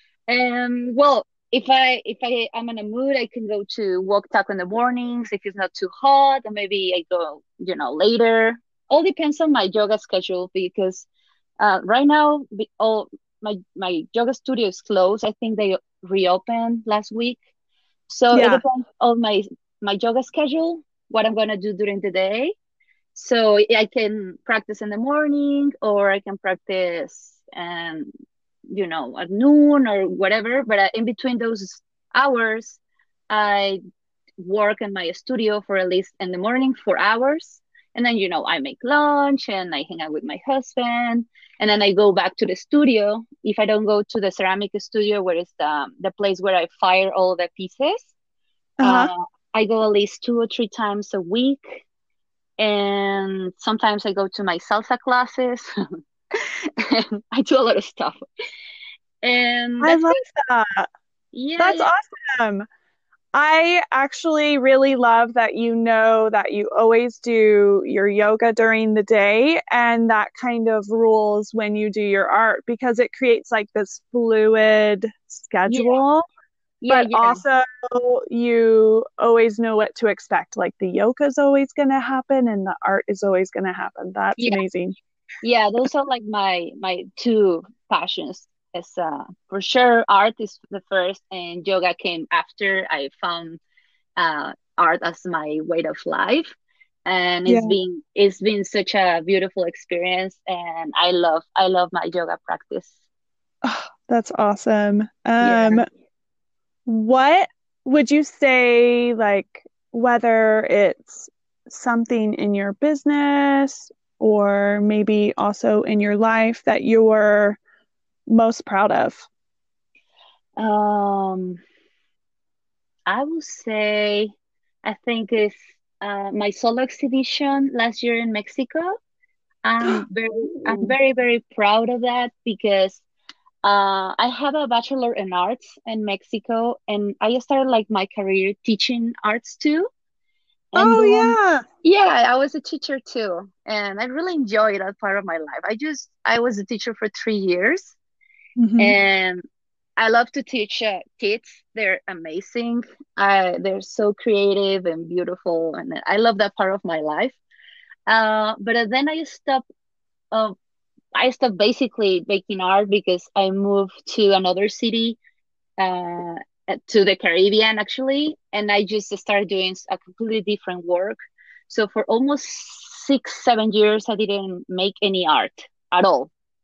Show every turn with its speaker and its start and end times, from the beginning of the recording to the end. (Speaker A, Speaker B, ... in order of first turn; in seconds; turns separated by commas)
Speaker A: 0.3-11.1, Speaker A: 11.6-17.4, Speaker A: 18.1-22.6, Speaker B: 18.3-18.6, Speaker A: 23.1-28.1, Speaker A: 28.7-32.8, Speaker A: 33.3-33.8, Speaker A: 34.4-48.1, Speaker B: 48.8-49.1, Speaker A: 48.8-51.9, Speaker A: 52.6-55.7, Speaker A: 56.4-58.2, Speaker A: 59.2-60.2, Speaker B: 59.8-60.9, Speaker A: 61.3-61.9, Speaker B: 61.6-62.7, Speaker B: 63.3-76.3, Speaker A: 75.7-76.0, Speaker A: 76.8-77.4, Speaker B: 76.9-85.0, Speaker A: 85.4-93.6, Speaker A: 94.2-102.9, Speaker B: 97.5-97.8, Speaker B: 103.6-105.9, Speaker A: 105.4-105.9, Speaker B: 106.9-117.6, Speaker B: 118.3-119.2, Speaker A: 120.6-121.6, Speaker A: 123.1-128.9, Speaker A: 129.7-133.0, Speaker B: 130.6-130.9, Speaker A: 133.6-139.9, Speaker A: 140.7-148.0, Speaker B: 140.8-141.6, Speaker B: 148.6-149.0, Speaker A: 148.8-149.4, Speaker A: 150.0-157.4, Speaker A: 158.1-159.6, Speaker A: 161.2-165.2, Speaker A: 165.8-171.2, Speaker A: 171.7-176.3